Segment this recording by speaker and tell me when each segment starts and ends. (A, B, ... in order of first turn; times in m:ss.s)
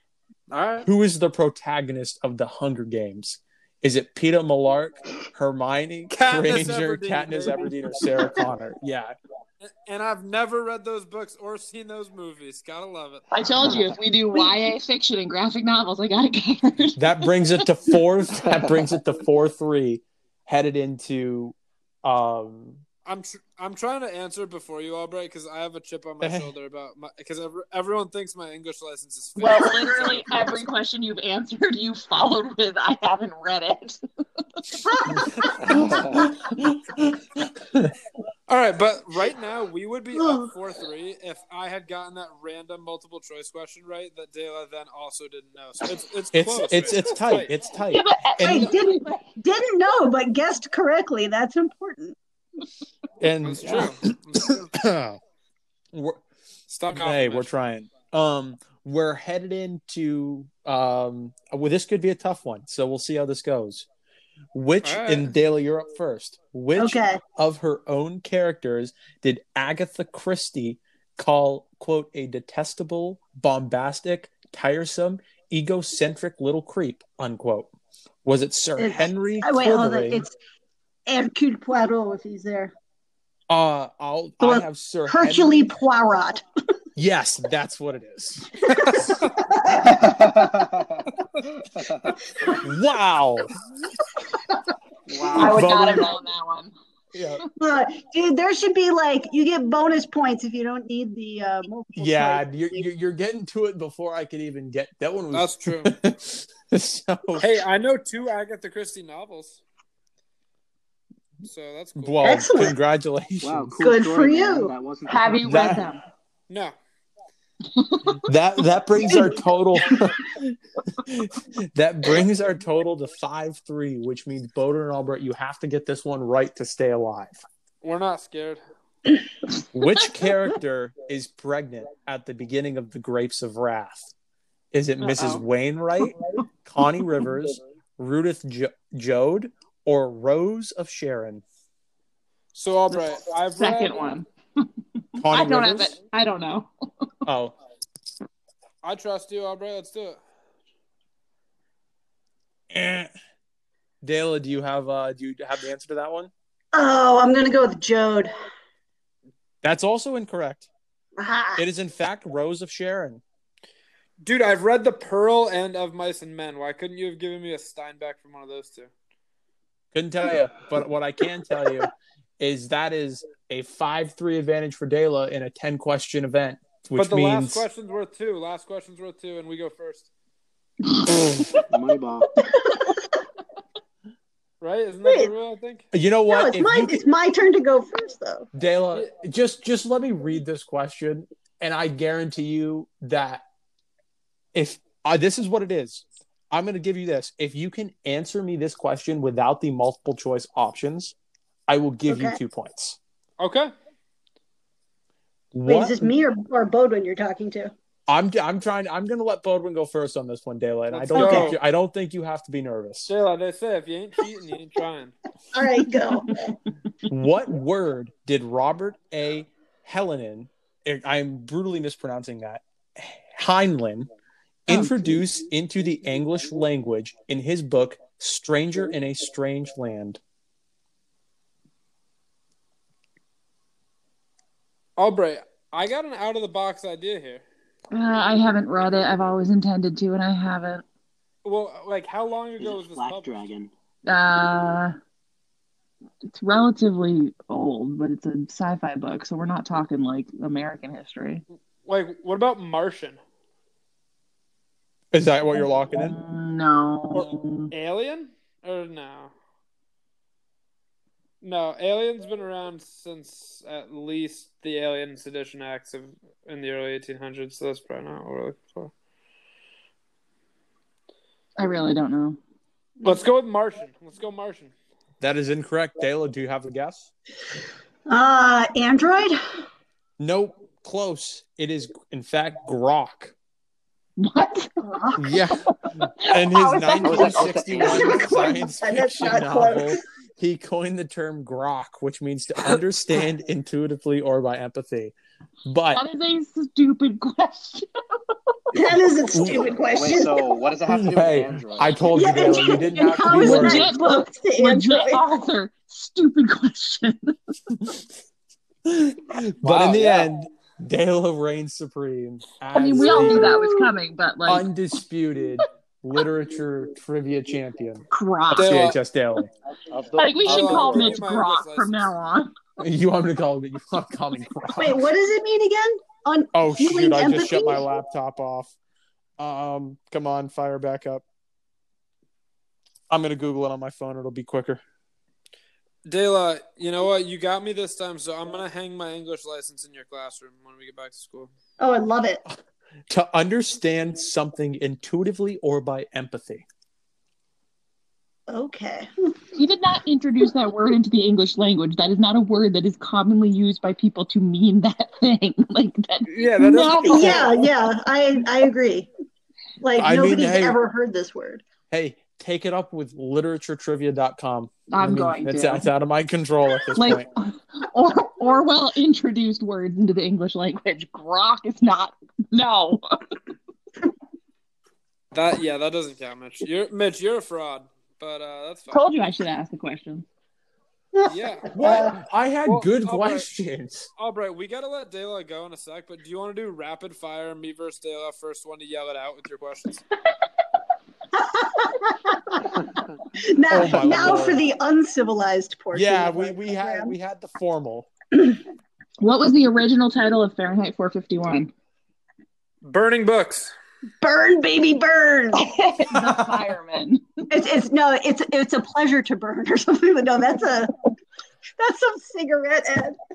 0:00.5-0:00.9 A
0:00.8-0:09.1 B
0:06.1-0:07.7 A
0:09.6-0:13.3 A
0:13.3-0:17.6 C
0:17.0-0:22.8 B
0:18.4-0:18.9 D
0:23.0-0:30.6 A
0:26.2-0:26.5 B
0:29.4-0:34.8 C
0:34.9-0:35.2 E
0:35.1-0:37.9 B
0:35.7-0:36.2 D
0:38.5-0:47.5 A
0:40.1-0:40.5 E
0:46.3-0:48.7 B
0:47.9-0:49.3 C
0:48.4-0:52.2 E
0:53.2-0:55.2 B
0:53.4-0:54.7 A
0:55.9-0:56.2 B
0:56.7-0:57.5 A
0:56.9-1:03.8 B
1:04.5-1:17.7 B
1:04.8-1:05.3 A
1:06.8-1:07.2 E
1:18.2-1:20.2 B
1:18.8-1:20.3 E
1:21.1-1:22.7 E
1:23.5-1:25.6 B
1:24.4-1:26.4 E
1:27.0-1:29.1 B
1:30.1-1:30.8 D
1:32.6-1:33.5 B
1:35.1-1:35.6 A
1:35.3-1:36.7 C
1:35.3-1:36.1 B
1:37.1-1:37.4 B
1:37.6-1:42.8 E
1:42.0-1:47.5 B
1:45.3-1:45.9 A
1:47.4-1:49.6 A
1:51.4-1:52.4 A
1:52.0-1:53.8 B
1:52.2-1:52.7 E
1:53.4-1:55.4 D
1:53.8-1:54.7 E
1:55.1-1:56.0 C
1:55.4-1:55.8 B
1:56.5-1:56.7 A
1:57.7-1:58.2 C
1:58.2-2:07.4 B
2:07.8-2:08.6 A
2:09.7-2:14.1 B
2:14.7-2:21.4 B
2:15.0-2:15.4 C
2:22.5-2:24.0 A
2:23.5-2:24.6 C
2:25.2-2:26.7 C
2:25.2-2:25.9 B
2:27.2-2:27.6 B
2:28.8-2:30.2 A
2:32.7-2:33.1 B
2:34.0-2:36.3 B
2:36.7-2:38.3 E
2:39.6-2:40.7 B
2:41.2-2:41.6 E
2:41.6-2:43.2 B
2:44.2-2:48.9 A
2:49.9-2:57.6 B
2:57.0-3:00.1 A
3:00.9-3:01.6 C
3:01.7-3:02.3 D
3:04.6-3:05.9 A
3:05.0-3:05.3 E
3:05.9-3:07.0 B
3:06.3-3:08.5 E
3:08.5-3:13.4 B
3:14.5-3:21.1 B
3:21.7-3:23.0 B
3:22.1-3:22.4 E
3:23.4-3:23.7 A
3:25.5-3:26.1 B
3:25.6-3:27.7 E
3:28.1-3:33.1 B
3:30.9-3:31.6 A
3:31.1-3:31.5 E
3:33.0-3:35.1 A
3:35.5-3:36.6 E
3:37.1-3:44.1 B
3:44.7-3:50.2 B
3:44.7-3:45.1 C
3:55.0-3:57.4 A
3:57.9-4:00.8 C
4:01.4-4:03.4 A
4:02.6-4:03.7 D
4:04.0-4:04.9 C
4:06.3-4:11.4 C
4:11.8-4:13.2 A
4:15.1-4:16.2 B
4:15.9-4:17.7 C
4:17.1-4:19.3 A
4:21.4-4:28.9 A
4:31.6-4:32.4 C
4:33.0-4:34.7 A
4:35.2-4:37.1 B
4:38.1-4:39.4 E
4:40.2-4:43.3 B
4:44.2-4:45.0 C
4:44.8-4:45.3 E
4:45.2-4:55.1 B
4:45.6-4:48.6 C
4:47.0-4:48.3 D
4:47.8-4:50.0 E
4:55.6-4:56.0 B
4:55.9-4:57.9 C
4:58.7-5:00.5 E
4:59.3-4:59.7 B
4:59.9-5:02.0 D
5:00.9-5:03.9 B
5:02.1-5:05.2 E
5:03.3-5:07.4 C
5:07.7-5:08.0 B
5:08.8-5:13.6 B
5:09.6-5:10.2 A
5:12.7-5:14.6 C
5:13.1-5:13.9 E
5:14.4-5:19.5 B
5:18.1-5:18.7 C
5:18.5-5:19.0 A
5:19.9-5:21.2 D
5:20.1-5:22.5 C
5:20.4-5:22.0 A
5:22.8-5:25.0 B
5:24.8-5:27.8 E
5:26.5-5:28.7 B
5:29.4-5:31.2 B
5:33.1-5:34.8 B
5:36.0-5:41.5 A
5:41.8-5:42.4 E
5:43.1-5:46.6 B
5:48.5-5:49.1 E
5:49.5-5:57.6 C
5:56.3-5:57.5 A
5:57.0-5:59.1 E
5:59.8-6:01.6 E
6:00.0-6:00.8 B
6:01.9-6:07.2 B
6:04.9-6:05.9 C
6:06.9-6:13.0 C
6:15.3-6:19.0 A
6:18.9-6:20.2 C
6:21.2-6:22.1 E
6:21.2-6:22.1 A
6:21.7-6:24.1 B
6:22.6-6:23.5 A
6:24.2-6:30.0 A
6:31.3-6:37.1 E
6:33.7-6:34.6 B
6:35.9-6:38.1 B
6:39.2-6:41.7 C
6:42.8-6:43.7 A
6:44.2-6:45.7 E
6:45.5-6:47.4 C
6:47.5-6:50.9 E
6:51.8-6:53.2 E